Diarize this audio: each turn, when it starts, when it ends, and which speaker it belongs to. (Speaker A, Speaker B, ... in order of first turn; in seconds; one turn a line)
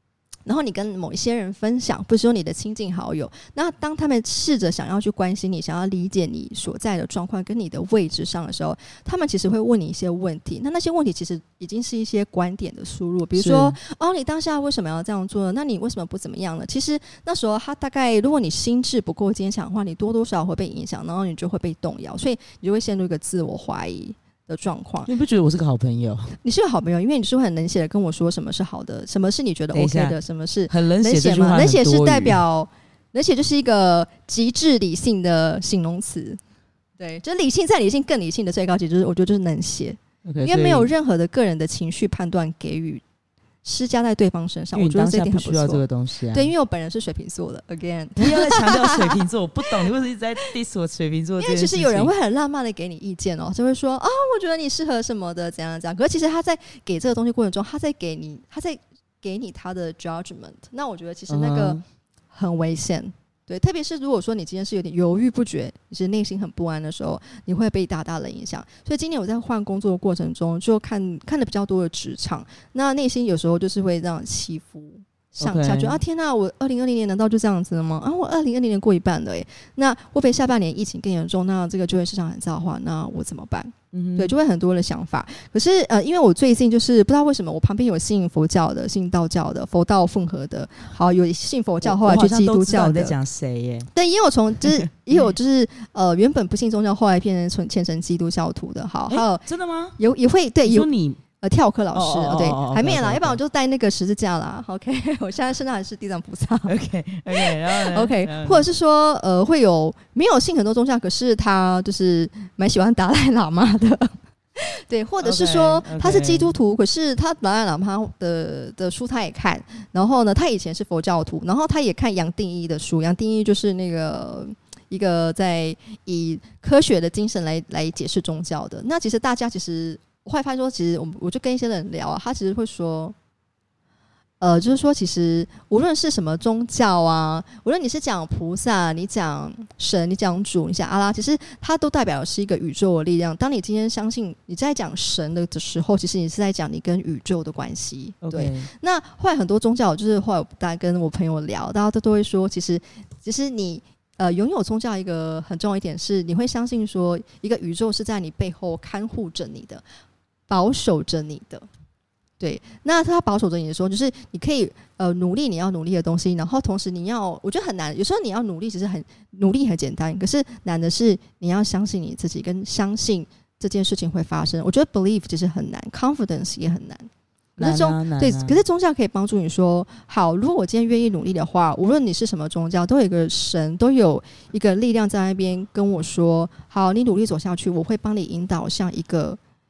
Speaker A: 0.5-25.1
Speaker B: 13.4-13.8
Speaker B: 25.1-26.4
Speaker A: 26.4-36.4
Speaker B: 29.7-30.2
Speaker B: 30.7-32.4
Speaker A: 37.0-43.0
Speaker B: 40.2-40.9
Speaker A: 43.6-49.2
Speaker B: 44.7-46.5
Speaker B: 48.2-52.1
Speaker A: 51.4-61.8
Speaker B: 61.3-61.8
Speaker A: 62.3-93.2
Speaker B: 75.4-76.0
Speaker B: 83.9-84.3
Speaker B: 91.8-93.9
Speaker A: 93.9-99.5
Speaker B: 99.1-100.0
Speaker A: 100.0-100.9
Speaker B: 100.7-101.2
Speaker A: 101.4-106.8
Speaker B: 101.9-103.4
Speaker B: 106.7-108.7
Speaker A: 107.3-133.2
Speaker B: 115.2-116.5
Speaker A: 134.4-159.8
Speaker B: 148.2-148.7
Speaker A: 160.5-161.7
Speaker A: 162.4-189.4
Speaker B: 177.6-178.6